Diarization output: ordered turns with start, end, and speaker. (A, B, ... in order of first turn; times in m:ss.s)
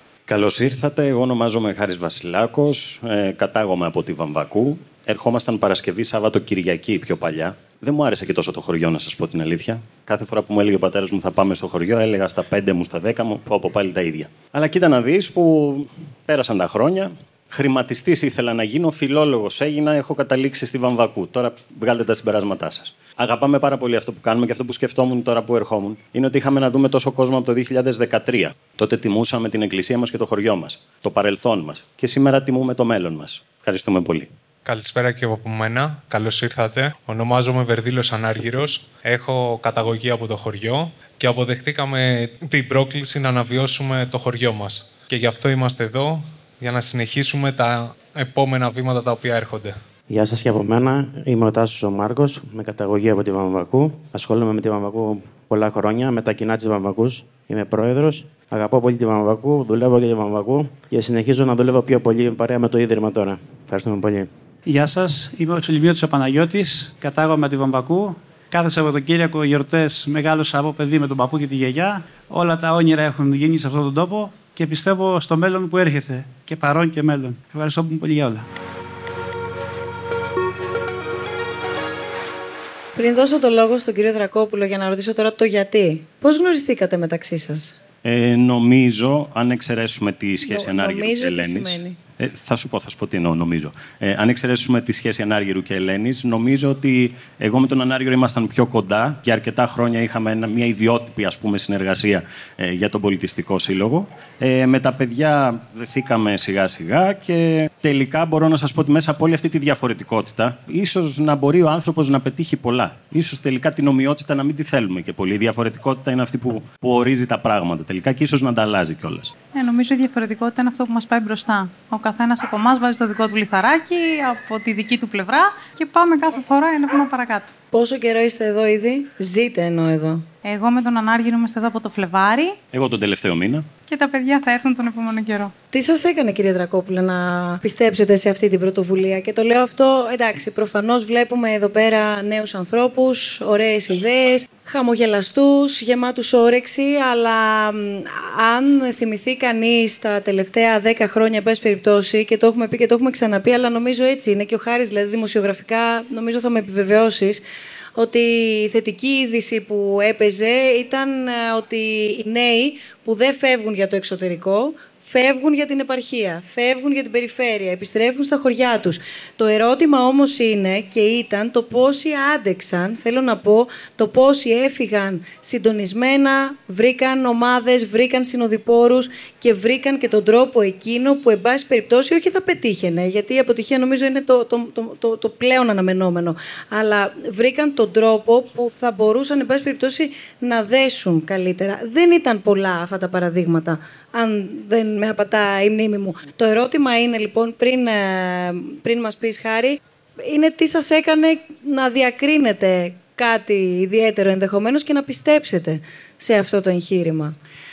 0:00.3-0:34.3 A
0:34.6-0:49.8 B
0:50.1-1:04.3 C
1:04.7-1:18.5 D
1:23.0-1:27.8 E
1:28.0-1:59.4 A
1:30.4-1:32.0 E
1:59.5-2:07.5 F
2:07.7-2:10.2 E
2:10.4-2:12.6 F
2:12.7-2:13.7 A
2:13.9-2:15.5 F
2:15.7-2:37.4 E
2:38.0-3:27.4 E